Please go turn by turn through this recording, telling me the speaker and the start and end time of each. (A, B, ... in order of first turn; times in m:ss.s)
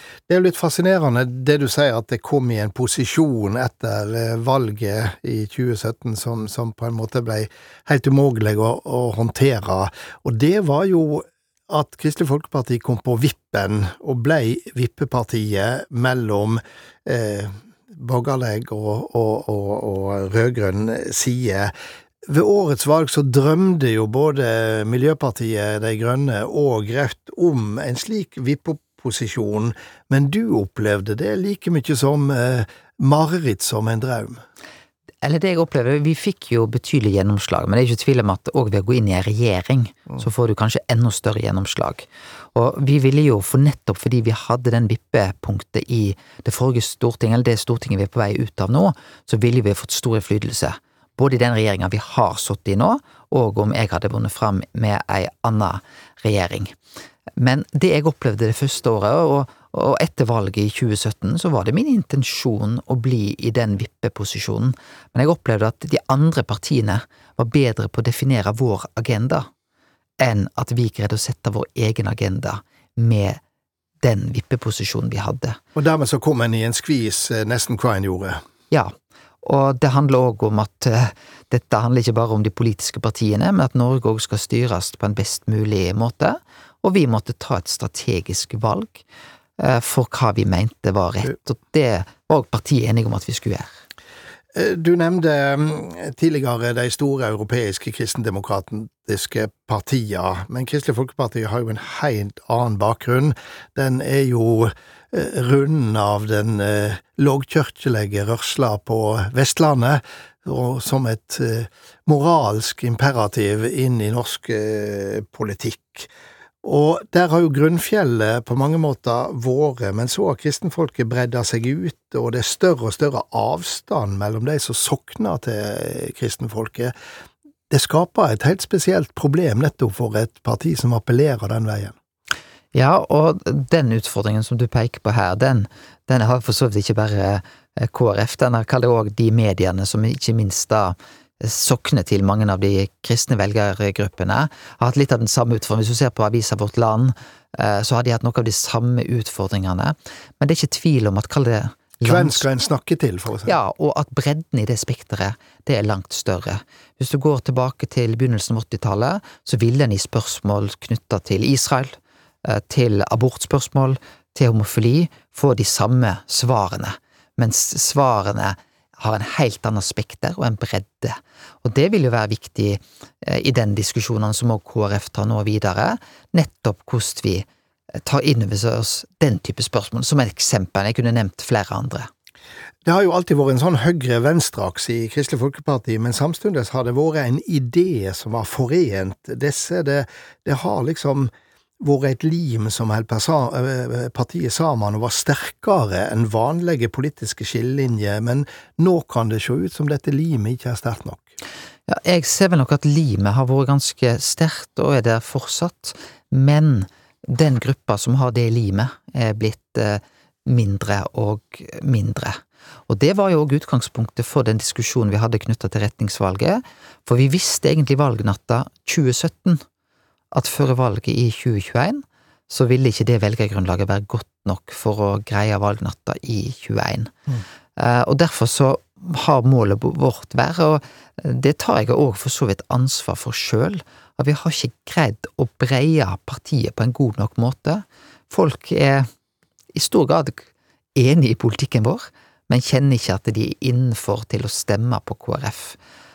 0:00.3-0:21.7 A
0:22.3-0:34.4 A
0:35.2-0:56.7 B
0:57.4-1:09.5 B
1:10.2-1:13.4 B
1:14.0-1:15.6 B
1:15.8-1:18.4 A
1:18.7-1:29.0 B
1:29.6-1:33.7 B
1:34.5-1:56.1 A
1:56.6-2:06.9 A
2:07.7-2:12.0 A
2:12.7-2:32.5 B
2:32.0-2:33.6 A
2:33.5-3:02.1 B
3:02.8-3:21.2 A
3:21.9-3:39.6 B
3:40.3-3:47.1 B
3:47.8-3:59.1 B
3:59.7-4:05.8 B